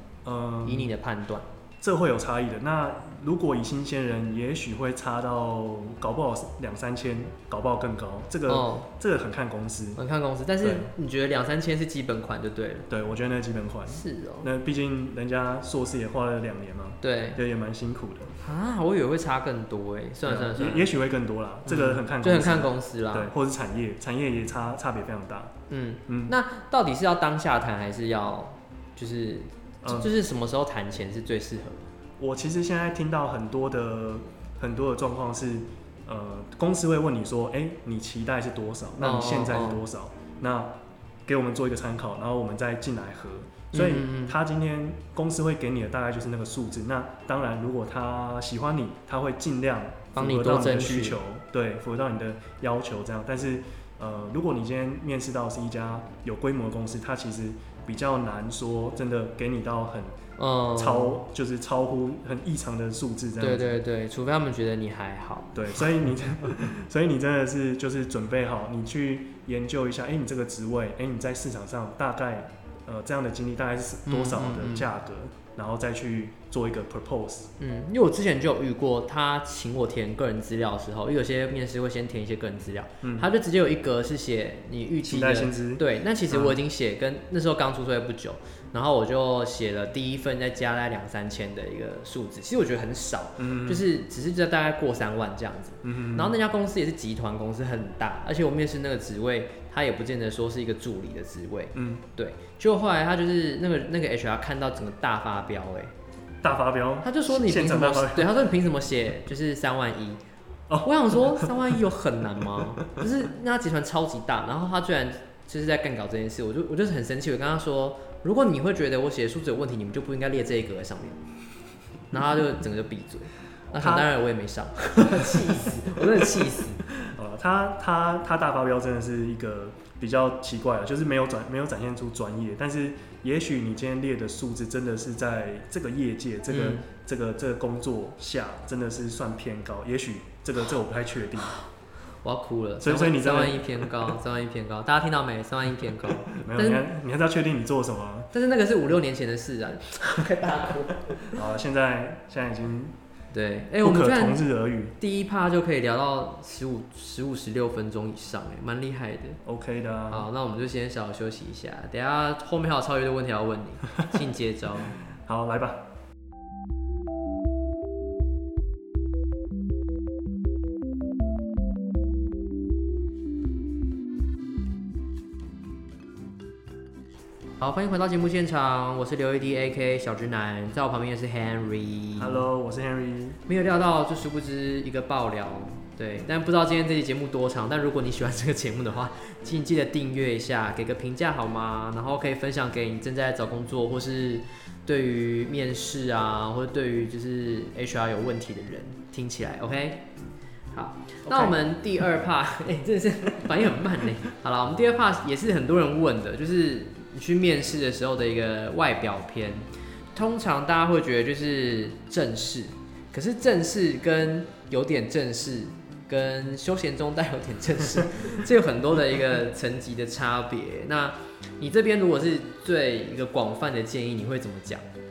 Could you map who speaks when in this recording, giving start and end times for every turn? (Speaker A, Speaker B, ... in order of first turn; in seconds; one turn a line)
Speaker A: 0.2-0.9
Speaker B: 0.6-1.5
Speaker A: 1.8-10.0
Speaker B: 8.5-8.9
Speaker B: 10.0-12.9
Speaker A: 10.6-10.9
Speaker A: 12.9-18.3
Speaker B: 13.9-14.5
Speaker B: 17.0-17.4
Speaker B: 18.4-20.9
Speaker A: 20.2-25.5
Speaker B: 21.7-23.3
Speaker B: 25.7-31.8
Speaker A: 26.1-26.4
Speaker A: 29.8-30.1
Speaker A: 32.2-40.7
Speaker B: 39.0-39.8
Speaker A: 41.3-60.2
Speaker B: 43.7-44.4
Speaker B: 50.2-51.2
Speaker B: 60.4-61.2
Speaker A: 60.8-63.8
Speaker B: 63.4-65.8
Speaker A: 65.5-77.5
Speaker B: 74.1-74.9
Speaker B: 77.6-105.9
Speaker A: 83.0-83.3
Speaker A: 85.0-86.6
Speaker A: 93.4-93.9
Speaker A: 95.8-96.4
Speaker A: 101.8-102.0
Speaker A: 106.4-108.3
Speaker B: 107.0-110.2
Speaker A: 110.7-111.7
Speaker B: 110.8-121.2
Speaker B: 122.1-126.8
Speaker A: 123.7-124.1
Speaker A: 127.0-141.6
Speaker B: 136.5-136.8
Speaker B: 142.2-146.8
Speaker A: 142.8-144.2
Speaker A: 146.0-148.3
Speaker B: 148.3-151.4
Speaker A: 151.3-152.9
Speaker B: 153.3-154.4
Speaker A: 153.8-154.9
Speaker B: 155.0-159.4
Speaker A: 159.4-160.3
Speaker B: 160.1-165.0
Speaker A: 165.2-165.8
Speaker B: 177.6-182.5
Speaker A: 182.2-183.4
Speaker B: 183.5-200.0
Speaker B: 200.7-224.8
Speaker A: 201.3-201.6